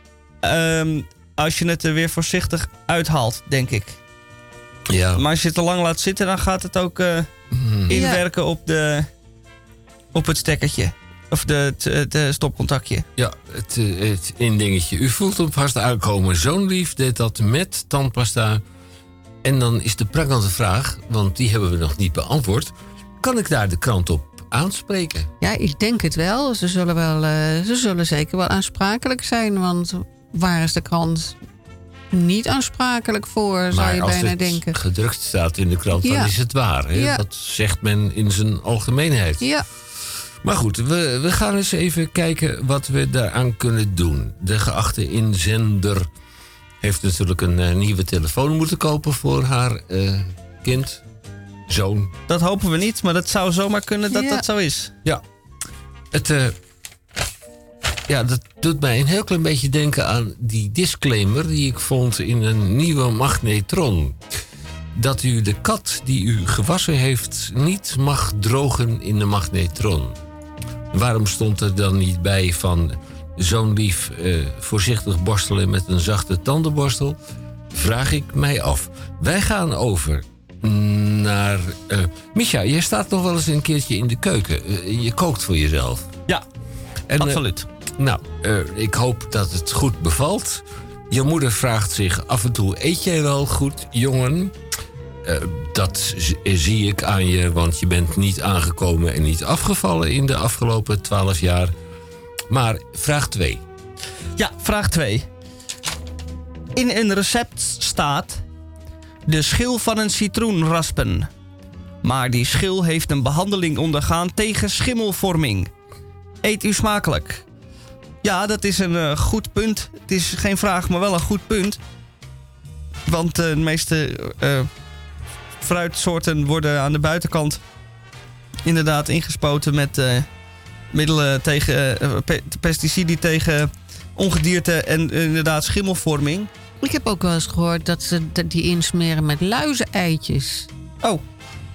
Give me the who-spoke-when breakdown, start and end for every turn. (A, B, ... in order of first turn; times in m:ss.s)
0:00.4-0:04.0 A
0:04.9-0:05.2 B
0:05.2-0:07.3 A
0:07.5-0:08.0 B
0:07.9-0:09.1 A
0:07.9-0:08.2 C
0:10.1-0:13.1 A
0:13.2-0:18.6 B
0:19.4-0:25.3 B
0:25.4-0:31.4 C
0:32.1-0:34.8 C
0:33.7-0:39.4 B
0:36.0-0:36.3 C
0:36.9-0:37.2 C
0:39.4-0:39.6 C
0:40.4-0:46.1 B
0:46.8-0:51.0 B
0:51.7-0:52.1 B
0:52.3-0:55.0 A
0:54.1-0:54.4 C
0:56.1-0:56.6 B
0:58.1-1:04.2 B
1:04.9-1:10.2 B
1:10.9-1:17.2 B
1:17.7-1:26.1 B
1:27.1-1:34.6 B
1:27.2-1:27.7 A
1:35.2-1:41.7 B
1:42.5-1:43.6 B
1:44.4-1:45.2 A
1:46.8-1:48.4 A
1:49.3-1:51.3 A
1:52.0-1:55.7 A
1:56.4-1:57.4 A
1:58.2-2:01.8 A
2:03.0-2:04.7 A
2:05.6-2:07.6 A
2:08.6-2:10.3 A
2:10.9-2:16.5 A
2:16.8-2:20.7 C